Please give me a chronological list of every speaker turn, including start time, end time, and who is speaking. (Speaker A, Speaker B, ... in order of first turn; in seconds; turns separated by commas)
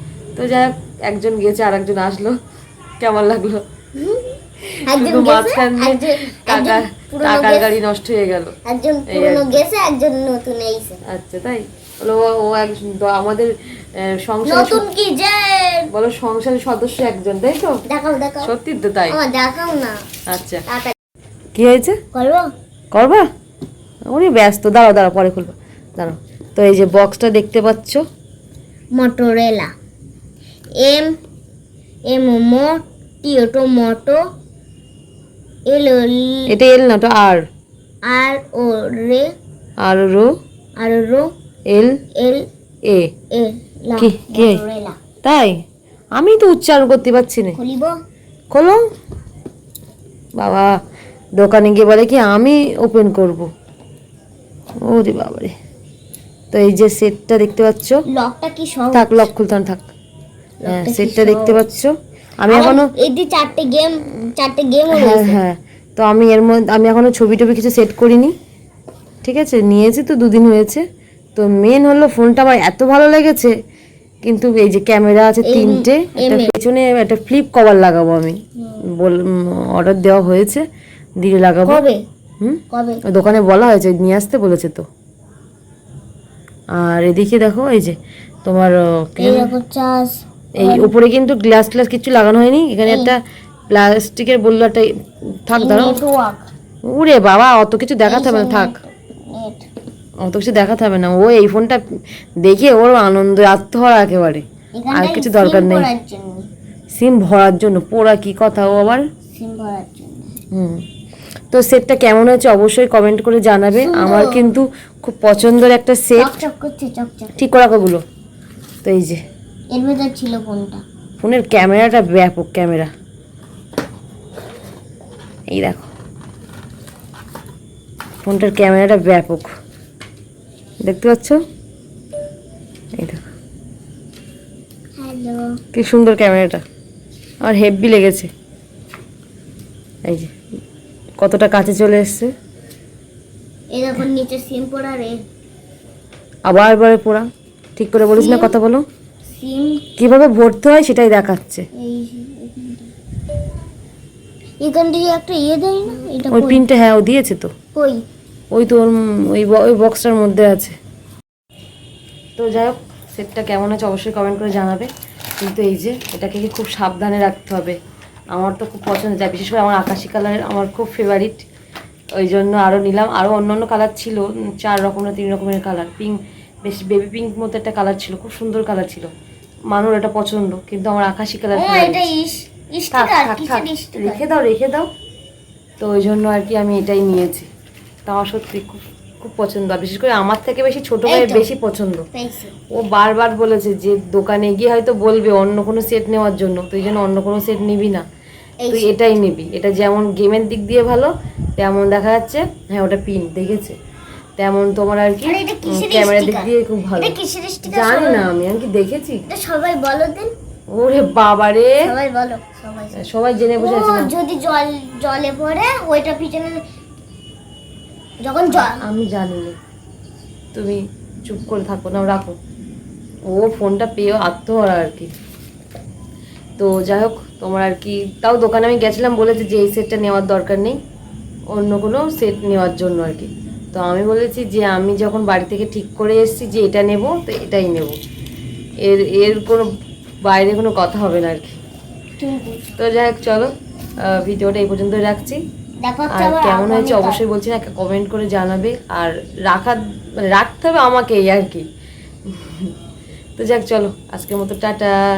Speaker A: 0.3-2.4, Speaker A: 3.0-3.6, Speaker B: 4.0-4.3, Speaker A: 4.7-8.5, Speaker B: 4.8-7.7, Speaker B: 8.6-11.0, Speaker A: 9.1-9.6, Speaker A: 11.1-14.8, Speaker B: 14.4-15.9, Speaker A: 15.9-17.8, Speaker B: 17.9-18.5, Speaker A: 18.4-19.2, Speaker B: 19.1-20.0, Speaker A: 20.3-20.6, Speaker B: 20.7-20.9, Speaker A: 21.5-22.0, Speaker B: 22.1-22.5, Speaker A: 22.9-23.2, Speaker A: 24.1-28.0, Speaker B: 28.9-29.7, Speaker B: 30.8-31.1, Speaker B: 32.1-34.2, Speaker B: 35.7-36.5, Speaker A: 36.5-37.4, Speaker B: 38.0-39.3, Speaker A: 39.8-40.3, Speaker B: 40.8-41.3, Speaker A: 41.7-42.0, Speaker B: 42.1-42.5, Speaker B: 43.3-45.0, Speaker A: 44.0-44.6, Speaker A: 45.2-45.6, Speaker A: 46.1-47.6, Speaker B: 47.5-48.0, Speaker A: 48.5-48.8, Speaker A: 50.4-50.7, Speaker A: 51.4-53.5, Speaker A: 54.8-55.5, Speaker A: 56.5-58.0, Speaker B: 58.1-59.3, Speaker A: 58.9-59.9, Speaker B: 60.6-61.6, Speaker A: 60.7-62.9, Speaker B: 62.5-65.4, Speaker A: 64.9-68.3, Speaker A: 69.2-70.8, Speaker A: 71.4-73.5, Speaker A: 74.2-78.4, Speaker B: 75.4-76.5, Speaker A: 79.0-80.6, Speaker A: 81.2-81.8, Speaker B: 81.6-82.0, Speaker A: 82.4-84.8, Speaker B: 82.7-83.0, Speaker A: 86.8-89.5, Speaker B: 89.2-90.9, Speaker A: 90.6-94.9, Speaker B: 92.9-93.1, Speaker A: 95.4-96.0, Speaker B: 95.5-96.5, Speaker A: 96.8-98.7, Speaker B: 98.0-99.7, Speaker A: 100.2-101.8, Speaker A: 102.4-105.9, Speaker B: 104.8-106.4, Speaker A: 106.9-109.0, Speaker B: 109.3-110.4, Speaker A: 110.5-110.8, Speaker A: 111.5-116.4, Speaker B: 113.8-114.5, Speaker B: 116.2-117.3, Speaker A: 117.3-118.0, Speaker A: 118.8-119.2, Speaker B: 119.7-120.8, Speaker A: 121.2-122.9, Speaker A: 125.5-125.9, Speaker A: 128.2-129.5, Speaker A: 130.8-131.4, Speaker A: 132.9-133.2, Speaker B: 135.0-135.6, Speaker A: 135.7-136.6, Speaker A: 137.4-138.3, Speaker A: 140.1-140.3, Speaker A: 141.2-142.3, Speaker B: 143.7-145.2, Speaker A: 146.4-148.8, Speaker B: 148.1-148.5, Speaker B: 149.3-149.8, Speaker A: 150.0-151.7, Speaker B: 151.8-152.9, Speaker B: 154.6-156.6, Speaker A: 156.3-157.5, Speaker B: 157.7-158.0, Speaker A: 158.5-160.8, Speaker A: 162.4-164.9, Speaker A: 165.4-167.8, Speaker A: 168.3-171.4, Speaker A: 172.2-179.1, Speaker A: 179.7-182.1, Speaker B: 181.5-184.2, Speaker A: 182.9-184.9, Speaker A: 185.8-187.5, Speaker A: 188.1-192.1, Speaker B: 191.1-191.5, Speaker B: 192.1-192.5, Speaker A: 192.7-198.1, Speaker B: 198.6-198.9, Speaker A: 198.7-203.8, Speaker A: 204.4-207.1, Speaker B: 205.2-208.2, Speaker A: 207.7-209.2, Speaker B: 209.3-210.3, Speaker A: 210.7-211.8, Speaker B: 211.8-213.0, Speaker A: 213.0-214.1, Speaker B: 213.6-216.6, Speaker B: 218.2-218.8, Speaker A: 218.5-219.6, Speaker A: 220.5-222.4, Speaker A: 223.3-225.1, Speaker A: 226.6-230.8, Speaker A: 231.5-237.9, Speaker A: 238.8-239.7, Speaker A: 240.2-241.6, Speaker B: 242.2-242.7, Speaker A: 242.8-245.4, Speaker B: 245.8-247.2, Speaker A: 246.1-251.7, Speaker A: 252.3-252.7, Speaker A: 253.4-255.0